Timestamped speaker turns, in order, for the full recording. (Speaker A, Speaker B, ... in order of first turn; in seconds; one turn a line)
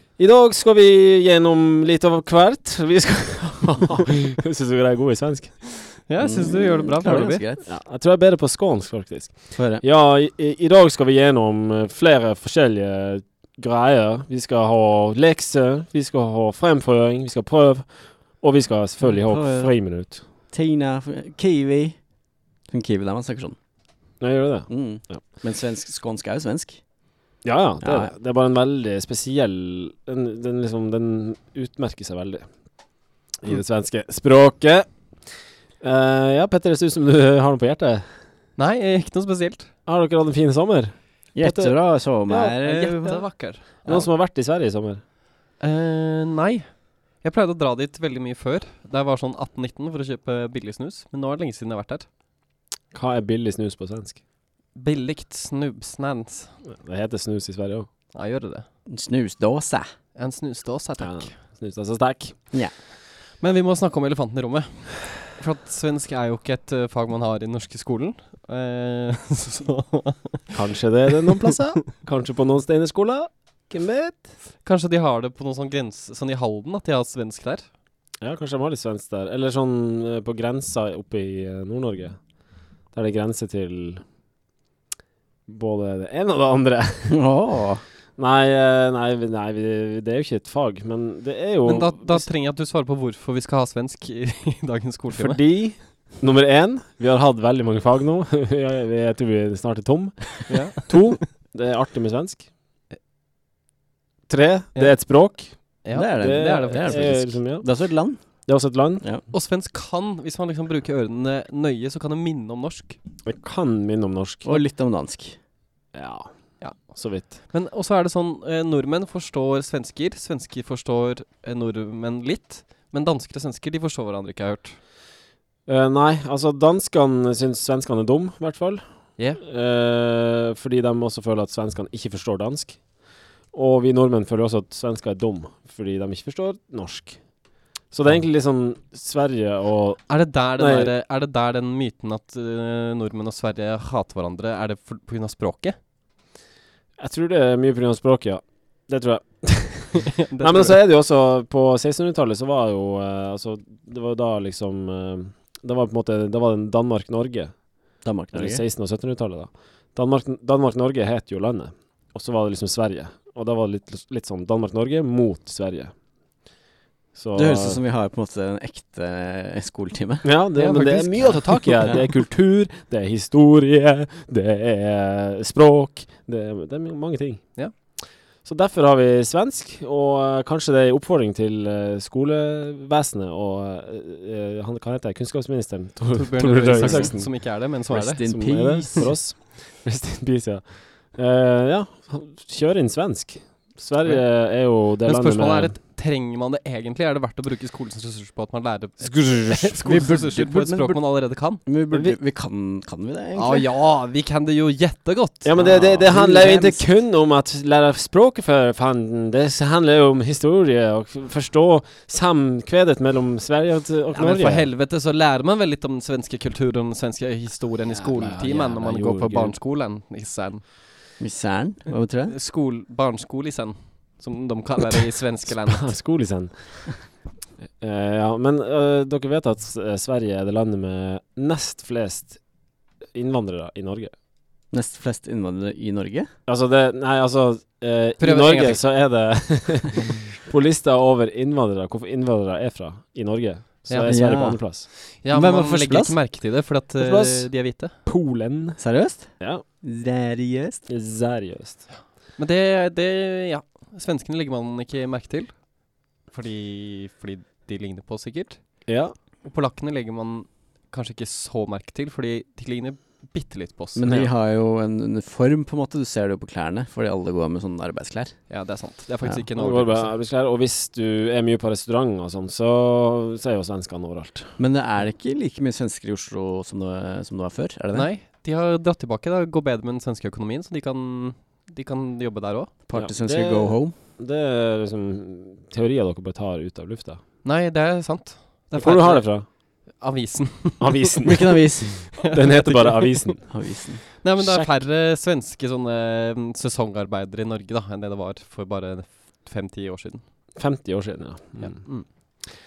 Speaker A: 0.2-5.9
Speaker B: 6.1-7.4
Speaker C: 6.2-7.7
Speaker A: 7.7-20.2
Speaker C: 9.6-9.8
Speaker C: 19.0-19.7
Speaker C: 20.5-22.0
Speaker C: 22.7-23.6
Speaker A: 24.2-25.2
Speaker C: 24.7-26.8
Speaker A: 27.4-32.5
Speaker C: 27.8-28.1
Speaker A: 33.4-34.9
Speaker A: 35.8-38.0
Speaker B: 38.6-39.7
Speaker A: 39.9-42.6
Speaker C: 41.3-43.2
Speaker B: 42.6-44.0
Speaker A: 43.9-45.0
Speaker B: 45.6-46.7
Speaker B: 47.2-52.1
Speaker A: 52.9-54.2
Speaker B: 54.7-56.5
Speaker A: 56.6-57.9
Speaker B: 58.1-58.6
Speaker C: 58.9-59.9
Speaker B: 60.1-61.3
Speaker A: 61.0-62.5
Speaker B: 63.4-70.5
Speaker A: 70.5-74.3
Speaker B: 74.6-77.7
Speaker A: 78.2-82.2
Speaker A: 82.9-84.0
Speaker A: 85.5-87.2
Speaker C: 87.1-87.8
Speaker A: 88.2-92.3
Speaker B: 91.6-95.4
Speaker A: 95.1-102.5
Speaker B: 100.5-101.2
Speaker A: 104.3-107.7
Speaker B: 105.8-107.2
Speaker C: 105.9-108.2
Speaker A: 108.5-109.0
Speaker B: 109.3-113.0
Speaker A: 113.2-114.6
Speaker C: 114.5-115.4
Speaker A: 115.9-117.3
Speaker B: 116.6-124.8
Speaker A: 125.7-128.8
Speaker A: 129.4-132.8
Speaker A: 133.5-137.2
Speaker A: 137.9-140.9
Speaker B: 140.1-145.8
Speaker A: 147.0-157.5
Speaker B: 150.0-150.8
Speaker C: 158.0-158.6
Speaker A: 158.3-165.9
Speaker A: 167.1-167.8
Speaker C: 167.3-172.1
Speaker A: 170.2-177.4
Speaker A: 178.4-187.3
Speaker B: 186.1-188.4
Speaker C: 186.8-187.1
Speaker C: 187.9-189.1
Speaker A: 188.2-195.8
Speaker B: 195.0-201.6
Speaker A: 199.0-200.0
Speaker C: 199.8-201.0
Speaker C: 201.6-203.7
Speaker A: 201.9-202.2
Speaker B: 203.3-206.1
Speaker A: 205.4-214.7
Speaker C: 205.6-206.8
Speaker B: 214.1-220.6
Speaker A: 218.0-219.5
Speaker C: 221.2-222.3
Speaker B: 222.3-225.9
Speaker A: 225.5-226.9
Speaker A: 227.8-232.4
Speaker A: 233.1-234.1
Speaker C: 234.7-236.3
Speaker A: 236.5-244.9
Speaker B: 238.2-238.8
Speaker B: 243.9-244.2
Speaker C: 244.1-244.6
Speaker B: 245.0-247.9
Speaker C: 245.3-246.2
Speaker A: 247.0-248.8
Speaker C: 248.8-250.9
Speaker A: 250.9-251.8
Speaker B: 252.4-255.7
Speaker B: 256.3-258.6
Speaker A: 258.9-259.1
Speaker B: 259.4-264.0
Speaker C: 263.9-268.4
Speaker A: 264.0-264.3
Speaker B: 268.5-270.1
Speaker A: 269.6-274.5
Speaker C: 274.6-278.1
Speaker B: 277.9-282.7
Speaker C: 282.9-283.9
Speaker A: 282.9-287.2
Speaker B: 287.4-291.1
Speaker A: 288.8-289.4
Speaker A: 290.8-293.6
Speaker C: 291.2-292.1
Speaker B: 292.2-293.4
Speaker C: 293.5-294.0
Speaker B: 294.2-300.2
Speaker A: 294.4-294.7
Speaker A: 300.6-301.8
Speaker B: 301.6-302.1